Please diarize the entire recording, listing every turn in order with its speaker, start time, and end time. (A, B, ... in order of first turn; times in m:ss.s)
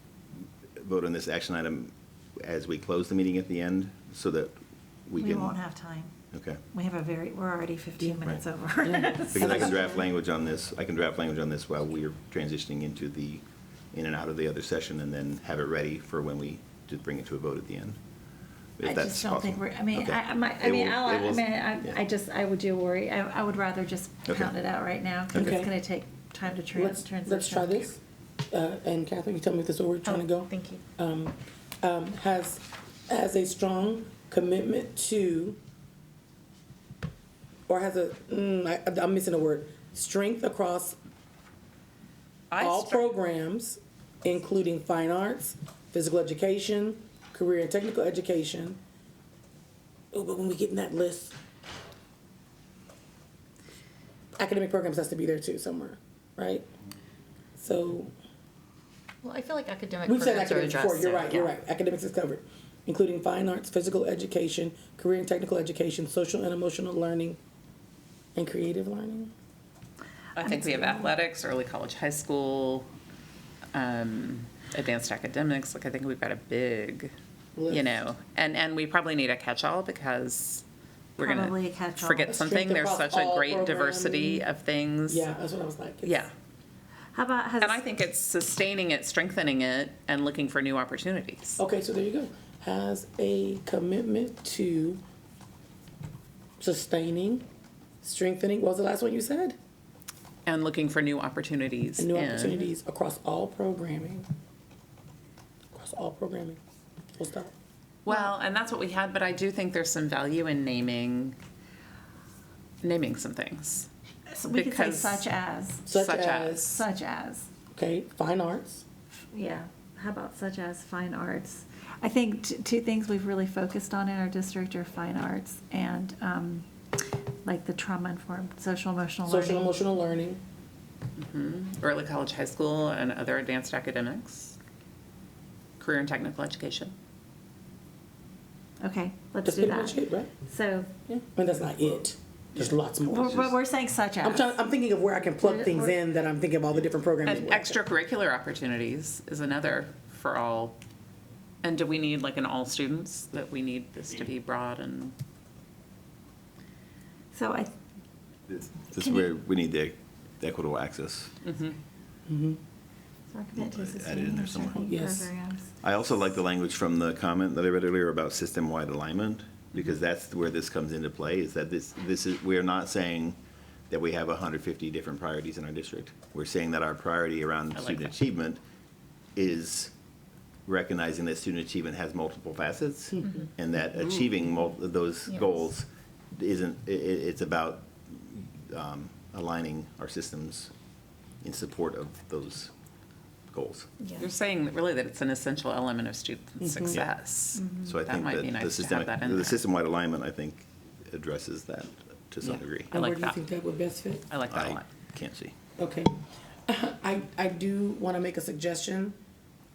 0:00.8-0:05.6 A
0:05.2-0:06.1 B
0:06.3-0:06.6 A
0:06.7-0:09.8 B
0:09.3-0:18.0 A
0:09.4-0:10.0 C
0:18.8-0:22.0 A
0:18.8-0:27.9 B
0:24.3-0:24.5 A
0:25.3-0:25.6 A
0:25.3-0:25.7 C
0:26.7-0:35.6 C
0:30.1-0:30.8 D
0:37.7-0:41.0 C
0:42.5-0:43.1 E
0:42.6-0:48.8 C
0:50.1-0:51.4 C
0:54.4-0:56.7 C
0:57.6-0:58.1 C
0:59.2-1:01.4 D
0:59.3-1:01.5 E
1:00.1-1:07.4 C
1:08.4-1:09.3 C
1:10.4-1:12.9 E
1:10.5-1:11.1 C
1:13.7-1:17.1 E
1:17.6-1:18.0 C
1:17.7-1:20.6 E
1:21.2-1:22.4 B
1:21.2-1:25.3 E
1:22.3-1:24.5 C
1:25.1-1:26.3 C
1:26.0-1:26.3 E
1:27.1-1:27.8 B
1:27.6-1:31.6 E
1:31.6-1:35.0 C
1:36.6-1:37.4 C
1:38.0-1:39.6 C
1:40.5-1:42.7 E
1:42.0-1:44.3 C
1:45.7-1:46.6 C
1:47.2-1:47.5 C
1:48.0-1:51.4 E
1:52.8-1:53.9 E
1:54.3-1:55.9 B
1:54.5-1:55.2 E
1:55.9-1:56.7 C
1:55.9-1:56.8 E
1:56.6-1:57.5 B
1:57.7-1:58.8 C
1:59.3-2:09.7 B
2:09.3-2:10.4 C
2:11.2-2:14.6 E
2:15.8-2:16.9 E
2:18.8-2:20.9 B
2:19.4-2:20.3 C
2:21.3-2:23.5 C
2:23.1-2:24.6 B
2:24.2-2:27.8 C
2:25.4-2:25.9 B
2:27.2-2:30.8 E
2:31.6-2:35.2 E
2:37.3-2:37.7 B
2:38.5-2:41.4 A
2:39.0-2:39.3 B
2:41.4-2:41.8 E
2:42.3-2:42.6 C
2:43.3-2:45.7 B
2:43.6-2:44.8 A
2:44.8-2:45.3 C
2:45.8-2:53.4 A
2:53.9-2:58.6 A
2:57.8-2:58.1 E
2:59.4-2:59.9 A
3:00.7-3:10.7 A
3:03.2-3:03.5 C
3:11.4-3:12.7 A
3:13.5-3:13.9 A
3:14.0-3:14.3 B
3:14.2-3:19.6 E
3:16.6-3:17.0 C
3:17.6-3:17.9 B
3:17.6-3:22.9 A
3:22.4-3:23.4 E
3:22.9-3:24.3 C
3:24.3-3:24.9 E
3:24.5-3:25.6 A
3:25.8-3:26.2 C
3:26.7-3:29.2 C